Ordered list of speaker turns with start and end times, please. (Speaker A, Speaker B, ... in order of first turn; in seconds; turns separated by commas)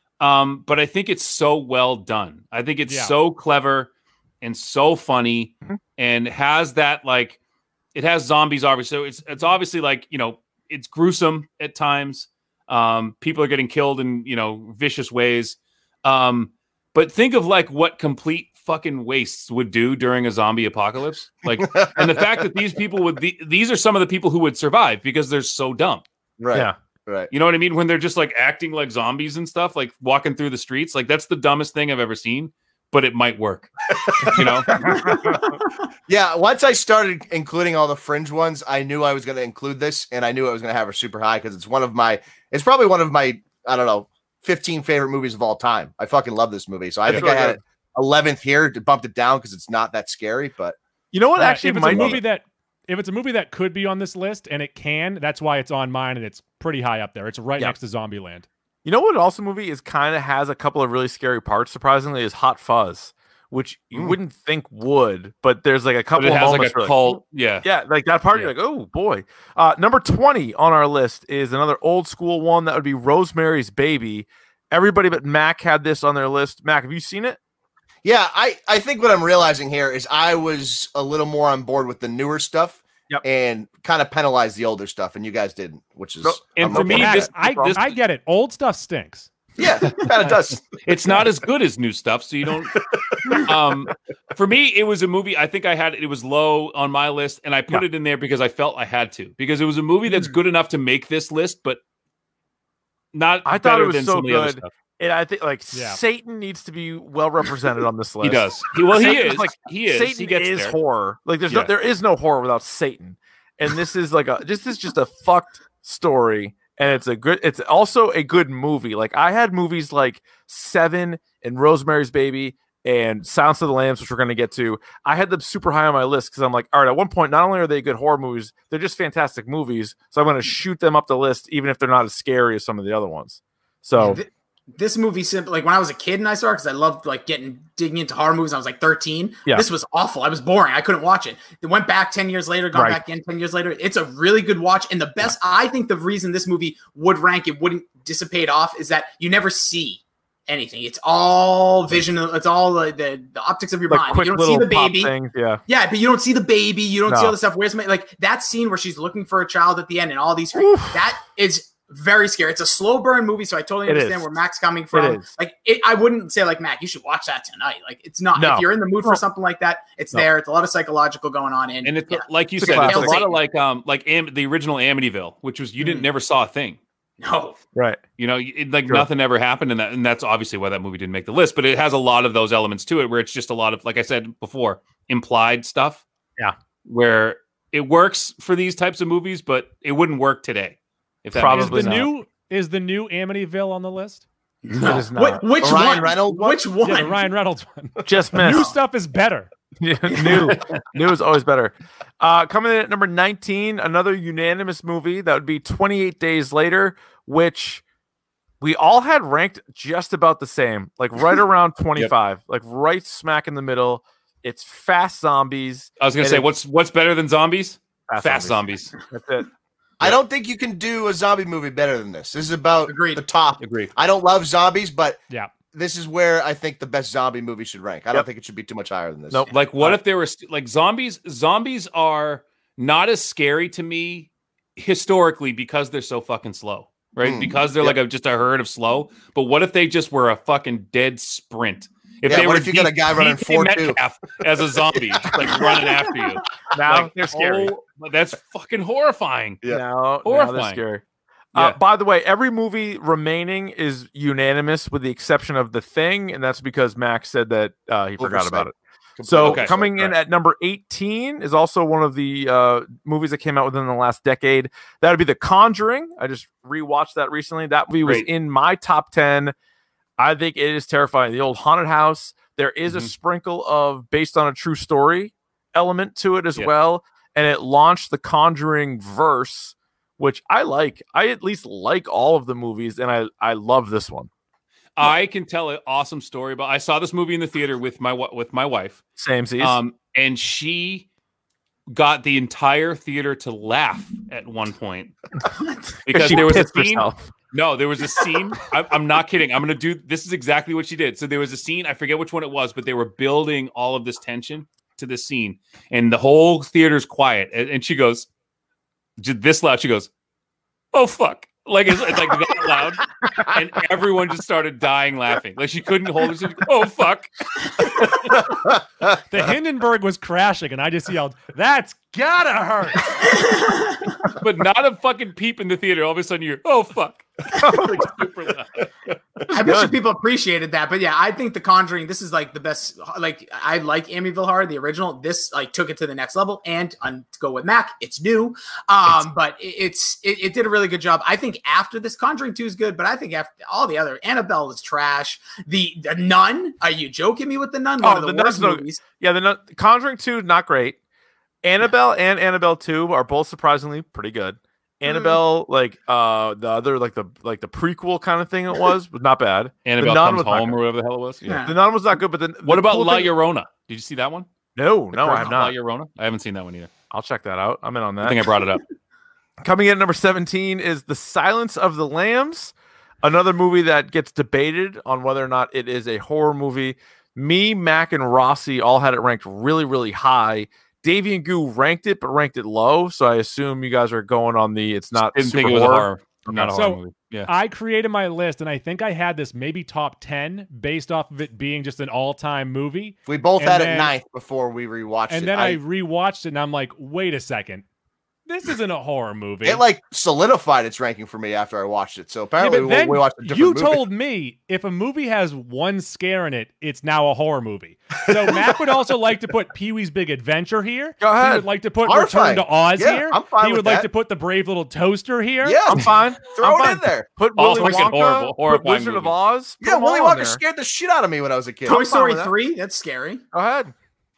Speaker A: 0.2-3.9, Speaker B: 2.9-3.1, Speaker A: 4.4-7.4, Speaker A: 7.9-26.0, Speaker C: 21.5-22.3, Speaker C: 26.4-27.3, Speaker A: 27.3-33.7, Speaker C: 34.0-35.4, Speaker A: 34.2-34.8, Speaker D: 34.8-35.7, Speaker C: 36.1-50.8, Speaker E: 47.1-47.6, Speaker E: 51.1-52.2, Speaker B: 51.3-58.5, Speaker E: 58.8-77.4, Speaker A: 66.2-67.7, Speaker C: 78.0-87.2, Speaker E: 86.2-87.7, Speaker A: 86.5-88.0, Speaker B: 86.7-89.3, Speaker C: 89.6-90.8, Speaker A: 89.9-92.8, Speaker C: 93.0-93.4, Speaker A: 93.4-101.8, Speaker A: 103.1-104.7, Speaker E: 103.4-134.2, Speaker B: 105.7-106.0, Speaker A: 108.2-110.8, Speaker D: 134.0-155.1, Speaker E: 142.7-143.0, Speaker E: 153.9-155.6, Speaker D: 155.7-173.3, Speaker E: 157.1-157.4, Speaker E: 160.5-161.0, Speaker E: 163.8-164.3, Speaker E: 164.9-165.2, Speaker E: 168.3-169.2, Speaker A: 171.8-176.8, Speaker E: 172.6-173.2, Speaker D: 175.8-176.1, Speaker D: 177.2-177.6, Speaker E: 177.7-178.0, Speaker A: 178.2-186.0, Speaker A: 186.8-192.1, Speaker E: 191.3-192.1, Speaker B: 191.4-194.2, Speaker D: 194.6-197.2, Speaker E: 194.8-195.4, Speaker C: 195.6-196.6, Speaker B: 196.8-199.5, Speaker E: 198.0-198.7, Speaker E: 199.8-207.8, Speaker E: 208.6-216.4, Speaker A: 216.0-218.9, Speaker E: 218.1-219.5, Speaker C: 220.0-225.2, Speaker D: 222.9-223.2, Speaker A: 223.6-223.9, Speaker C: 225.7-229.4, Speaker E: 229.3-230.0, Speaker A: 229.5-249.6, Speaker C: 237.2-237.9, Speaker C: 242.2-244.0, Speaker C: 245.2-245.6, Speaker E: 245.3-245.6, Speaker E: 246.7-247.7, Speaker E: 249.7-251.0, Speaker A: 250.2-250.8, Speaker E: 251.5-269.5, Speaker C: 258.2-260.1, Speaker A: 259.4-260.1, Speaker A: 268.0-268.3, Speaker E: 270.2-284.3, Speaker A: 285.0-289.0, Speaker E: 289.2-289.8, Speaker A: 289.6-291.1, Speaker A: 291.9-295.1, Speaker A: 296.1-308.3, Speaker E: 296.1-297.3, Speaker A: 309.2-310.1, Speaker A: 310.9-317.3, Speaker B: 319.3-323.2, Speaker D: 323.3-324.0, Speaker A: 324.3-328.8, Speaker E: 327.5-328.0, Speaker E: 329.5-330.0, Speaker D: 329.5-349.0, Speaker E: 348.0-351.0, Speaker E: 351.6-360.8, Speaker D: 355.1-355.4, Speaker A: 359.8-361.5, Speaker D: 361.4-361.8, Speaker E: 361.6-363.3, Speaker A: 362.6-364.5, Speaker E: 364.8-365.7, Speaker A: 365.2-366.9, Speaker E: 367.1-368.5, Speaker A: 368.2-368.8, Speaker E: 369.6-386.7, Speaker A: 385.3-387.5, Speaker B: 386.7-394.1, Speaker C: 393.3-395.8, Speaker B: 395.3-397.8, Speaker B: 398.4-399.8, Speaker C: 399.6-404.1, Speaker B: 402.6-415.8, Speaker C: 408.3-408.8, Speaker E: 411.2-411.7, Speaker C: 412.0-414.1, Speaker C: 415.6-417.3, Speaker E: 415.9-420.6, Speaker A: 417.6-419.3, Speaker C: 419.8-422.0, Speaker E: 421.9-422.5, Speaker D: 421.9-423.4, Speaker E: 423.5-423.9